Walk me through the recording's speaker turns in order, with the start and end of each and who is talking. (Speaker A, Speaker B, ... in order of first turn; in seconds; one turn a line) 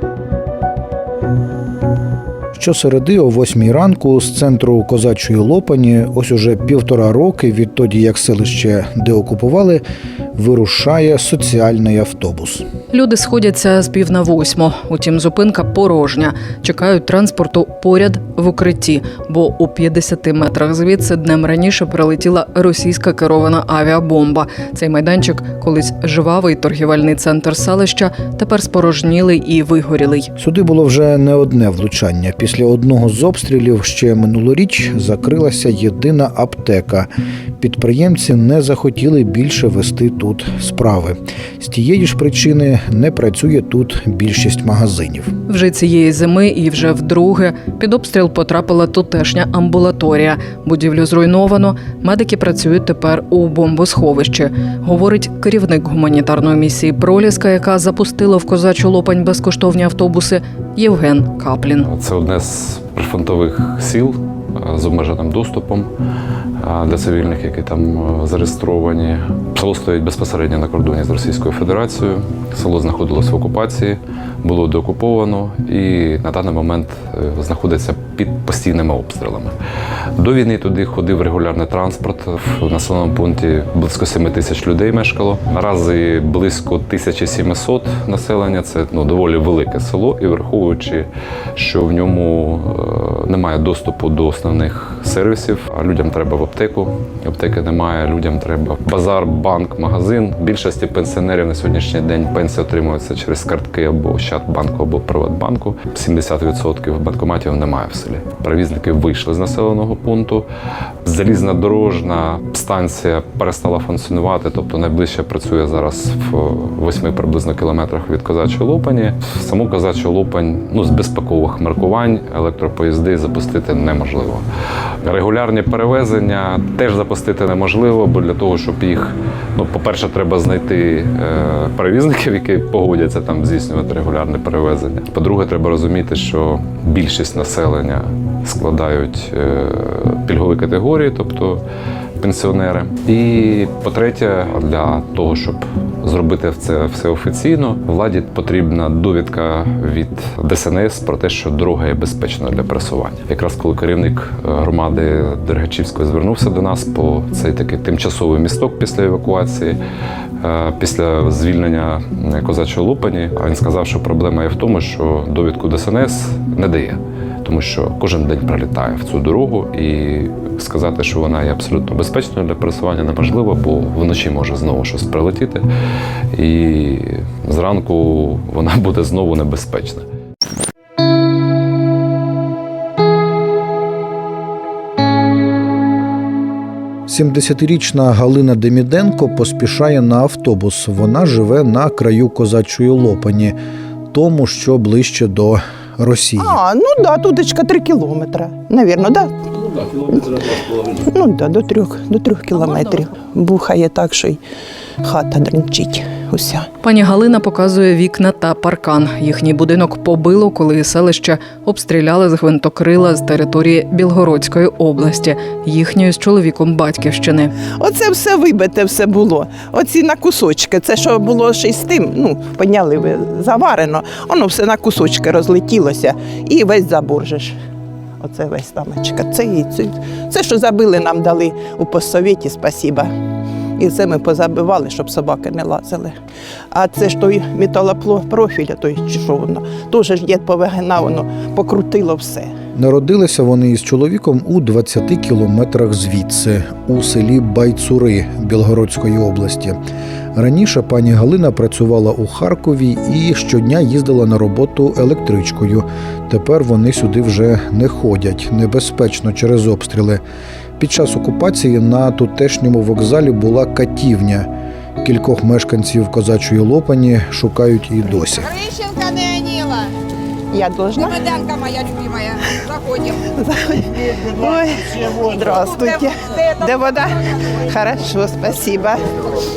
Speaker A: 2.5-9.8
Speaker A: 10.3-12.7
Speaker B: 12.9-30.3
Speaker A: 30.4-45.3
Speaker B: 45.5-61.9
Speaker C: 61.9-65.9
Speaker C: 66.6-79.5
Speaker C: 80.2-110.5
Speaker C: 111.0-124.4
Speaker C: 125.0-141.6
Speaker C: 142.2-159.8
Speaker C: 160.4-175.6
Speaker C: 176.3-180.1
Speaker A: 187.1-193.6
Speaker A: 194.1-196.6
Speaker D: 196.4-204.4
Speaker D: 205.0-206.7
Speaker B: 206.8-217.5
Speaker D: 217.8-227.6
Speaker D: 228.2-233.1
Speaker D: 233.8-236.1
Speaker D: 236.7-242.5
Speaker A: 242.7-249.8
Speaker A: 250.3-260.2
Speaker A: 260.8-264.5
Speaker A: 265.0-268.6
Speaker E: 268.6-269.9
Speaker D: 270.5-271.3
Speaker E: 271.2-273.1
Speaker D: 272.4-272.6
Speaker D: 273.2-279.1